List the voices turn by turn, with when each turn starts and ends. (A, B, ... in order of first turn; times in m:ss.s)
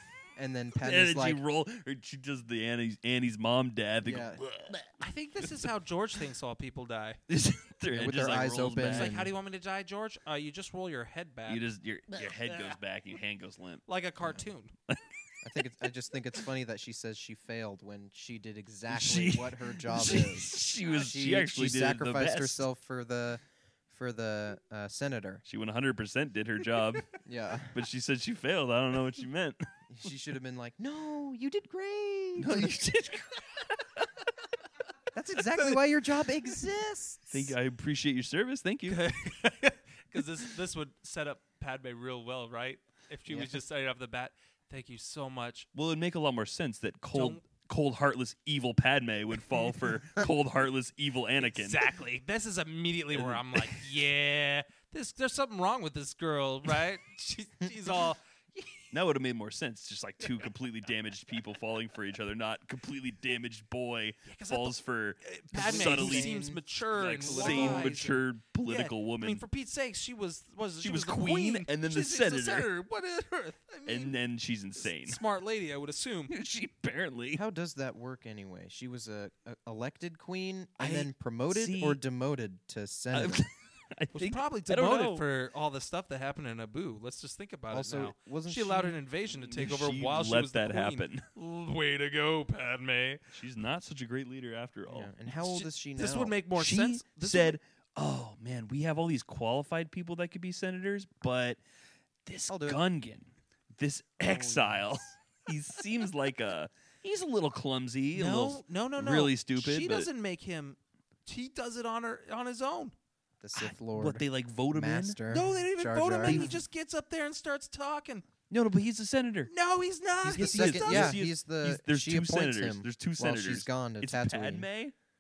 0:00.4-0:01.4 A
0:00.8-0:05.6 B
0:04.0-0:04.4 A
0:05.0-0:07.2 C
0:07.3-0:09.2 B
0:07.9-0:09.3 A
0:08.8-0:12.8 C
0:11.5-0:13.8 B
0:13.9-0:14.7 C
0:15.4-0:25.4 A
0:18.9-0:22.6 B
0:25.5-0:27.1 B
0:27.2-0:27.8 A
0:27.7-0:29.7 B
0:29.9-0:32.8 A
0:32.4-0:33.8 B
0:35.1-0:37.5 A
0:37.3-0:39.0 B
0:38.9-0:45.7 C
0:45.8-0:51.8 B
0:47.1-0:47.4 C
0:51.4-0:58.9 C
0:53.1-0:53.9 B
0:58.9-1:06.4 B
1:04.3-1:14.2 C
1:05.5-1:06.6 A
1:07.0-1:09.4 B
1:07.2-1:08.0 A
1:10.8-1:12.7 B
1:13.9-1:15.2 B
1:14.8-1:16.3 C
1:16.3-1:17.4 B
1:17.3-1:23.5 A
1:20.8-1:22.0 B
1:23.1-1:25.2 B
1:24.1-1:33.2 C
1:27.7-1:29.0 A
1:29.4-1:31.3 B
1:33.3-1:35.1 B
1:34.9-1:36.3 A
1:35.4-1:37.6 C
1:36.6-1:41.6 B
1:42.3-1:50.1 B
1:42.5-1:42.8 A
1:44.2-1:45.0 A
1:48.1-1:53.0 C
1:53.4-1:56.5 A
1:53.9-1:55.2 B
1:55.3-1:58.3 C
1:56.2-1:56.6 B
1:58.5-1:59.5 B
1:59.5-2:01.2 C
2:00.2-2:04.7 A
2:00.3-2:04.9 B